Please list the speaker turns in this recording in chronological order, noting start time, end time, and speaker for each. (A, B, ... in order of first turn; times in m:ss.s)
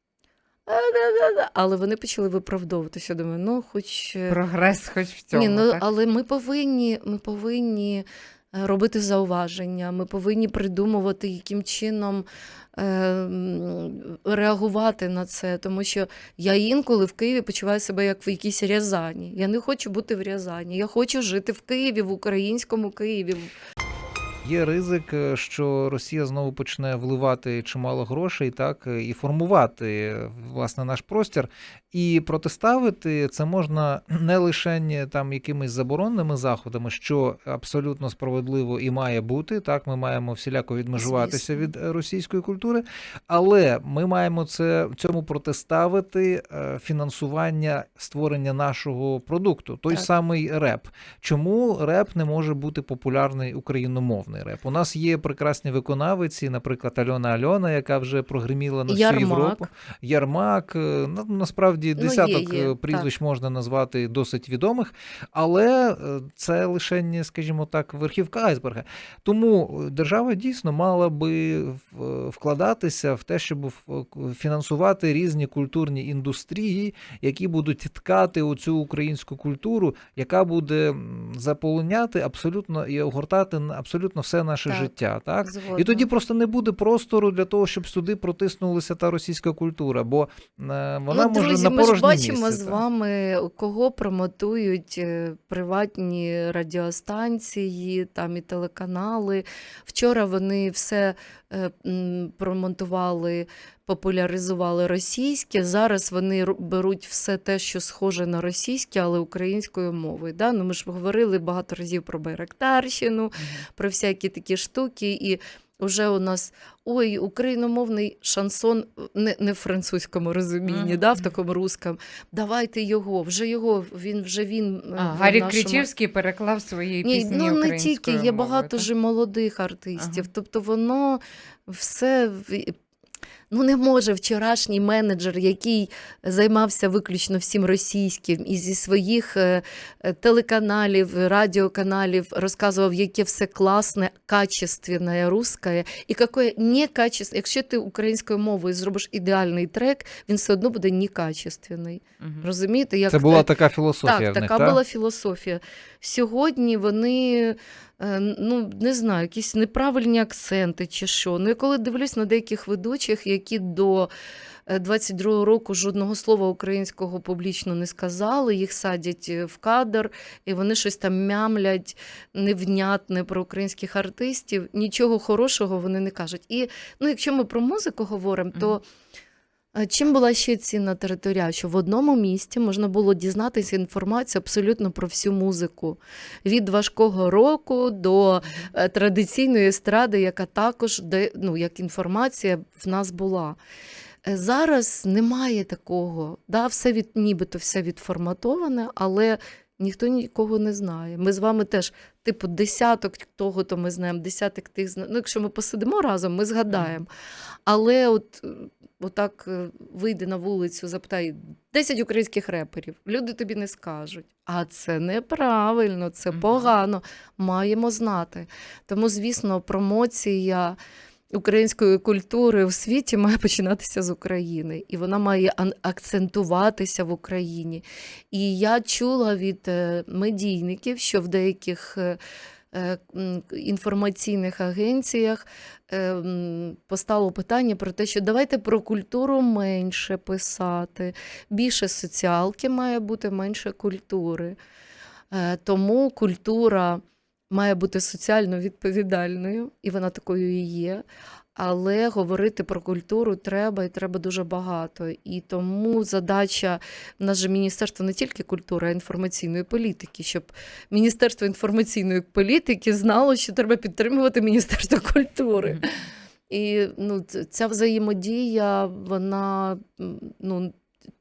0:00.7-0:04.4 A
0:04.3-0:05.8 B
0:05.3-0:23.5 A
0:24.4-1:32.8 C
0:41.0-0:41.7 A
0:58.9-0:59.7 A
1:02.0-1:03.1 A
1:24.7-1:24.9 A
1:25.4-1:26.1 A
1:31.1-2:05.9 A
1:53.4-1:53.6 B
2:00.7-2:01.3 B
2:05.0-2:08.9 B
2:07.0-2:12.7 A
2:10.0-2:10.3 B
2:13.5-2:33.5 A
2:32.2-2:32.4 B
2:33.1-2:34.8 C
2:34.0-2:44.1 A
2:44.7-2:58.8 A
2:59.7-3:13.6 A
3:14.2-3:27.1 A
3:27.6-3:40.8 A
3:36.3-3:36.7 B
3:41.3-3:52.2 A
3:52.7-4:04.6 A
4:05.3-4:11.0 A
4:11.5-4:30.7 A